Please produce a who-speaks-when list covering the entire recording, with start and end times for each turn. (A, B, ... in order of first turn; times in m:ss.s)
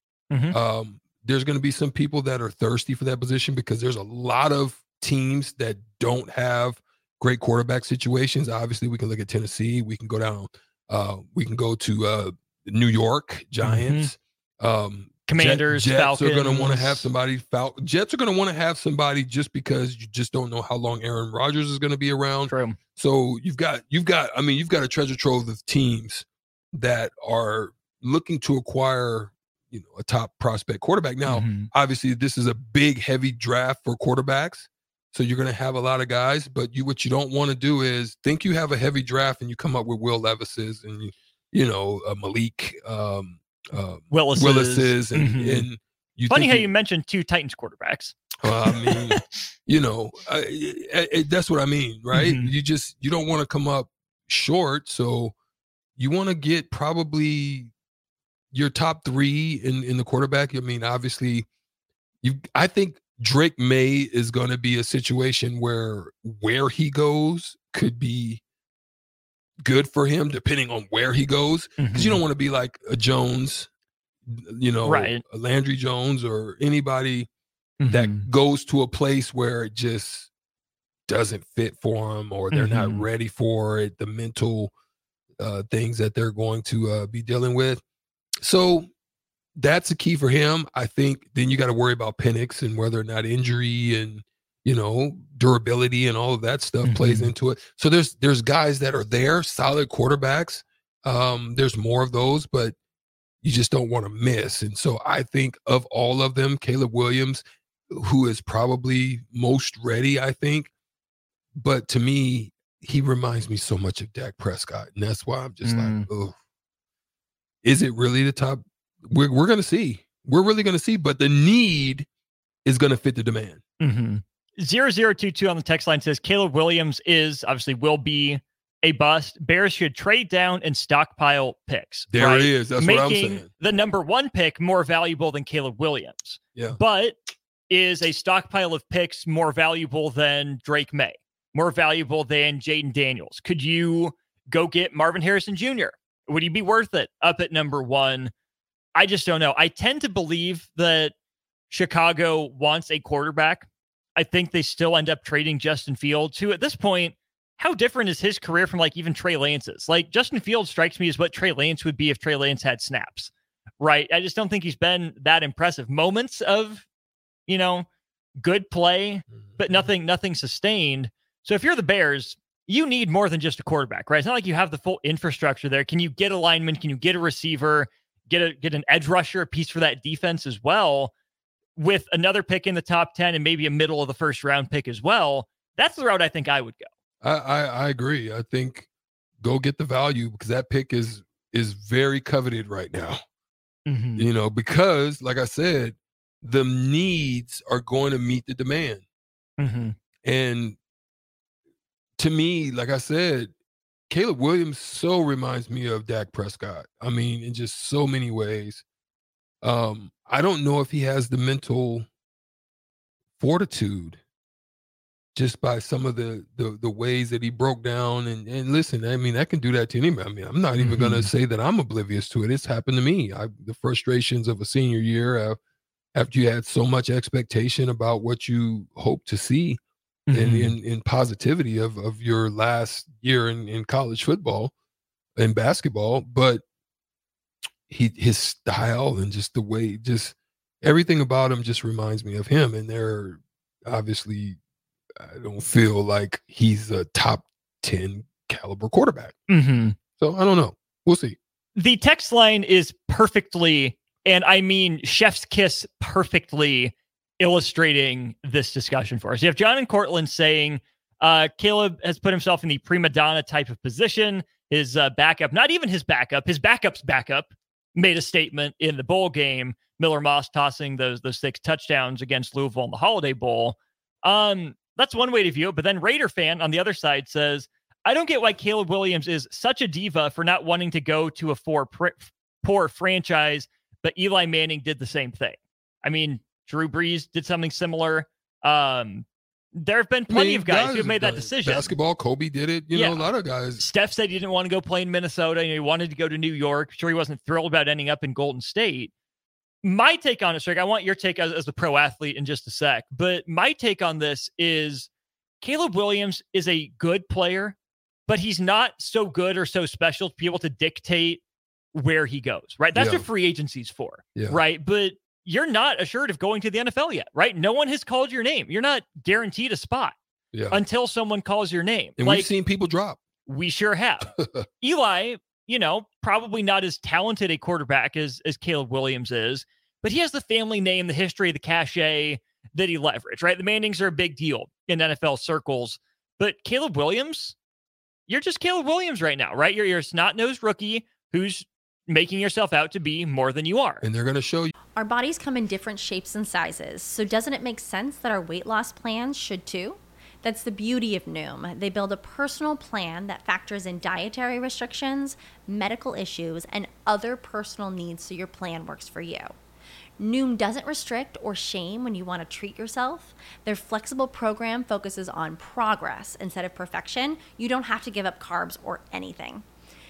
0:00.3-0:00.6 A
0:00.5-0:46.7 B
0:13.6-0:14.1 A
0:15.2-0:17.1 A
0:22.4-0:22.8 A
0:31.3-0:31.7 A
0:44.1-0:45.7 A
0:46.3-0:49.1 A
0:48.4-0:55.3 B
0:52.1-0:52.5 A
0:56.0-0:57.7 B
0:58.5-1:01.4 B
1:02.2-1:08.4 B
1:09.6-1:13.7 B
1:11.8-1:12.2 A
1:14.3-1:17.3 B
1:14.8-1:15.2 A
1:17.8-1:18.3 A
1:17.8-1:20.3 B
1:21.1-1:24.7 B
1:22.5-1:23.0 A
1:25.4-1:27.8 B
1:28.4-1:28.9 B
1:29.6-1:42.7 B
1:36.8-1:37.3 A
1:43.4-1:50.7 B
1:51.5-1:56.3 B
1:55.6-1:56.0 A
1:57.6-2:02.1 B
2:02.6-2:03.6 B
2:03.8-2:28.3 A
2:12.1-2:13.5 B
2:29.0-2:31.1 A
2:31.7-2:46.8 A
2:47.5-2:47.9 A
2:48.4-3:01.1 A
2:49.4-2:49.8 B
3:01.8-3:06.9 A
3:07.2-3:08.9 B
3:09.4-3:13.2 B
3:13.9-3:14.3 A
3:14.2-3:19.0 B
3:19.6-3:19.9 A
3:20.2-3:20.8 B
3:22.2-3:23.5 B
3:24.1-3:28.8 B
3:29.6-3:32.1 B
3:33.4-3:34.2 B
3:35.3-3:45.6 B
3:40.8-3:41.3 A
3:46.1-3:49.8 B
3:50.3-3:50.7 A
3:50.3-3:54.7 B
3:55.4-3:56.6 B
3:57.9-4:04.6 B
4:05.2-4:09.3 B
4:09.5-4:10.0 A
4:10.2-4:11.4 B
4:11.8-4:49.2 A
4:49.8-4:51.9 A
4:50.3-4:53.8 B
4:52.9-4:59.1 A
4:59.8-5:05.1 A
5:05.6-5:11.4 A
5:11.9-5:20.2 A
5:12.9-5:13.3 B
5:14.3-5:14.6 B
5:20.5-5:20.8 B
5:20.7-5:22.5 A
5:22.2-5:23.2 B
5:23.4-5:37.6 A
5:24.4-5:24.6 B
5:38.3-5:44.0 A
5:44.0-5:44.7 B
5:45.0-5:59.5 C
6:00.2-6:09.6 C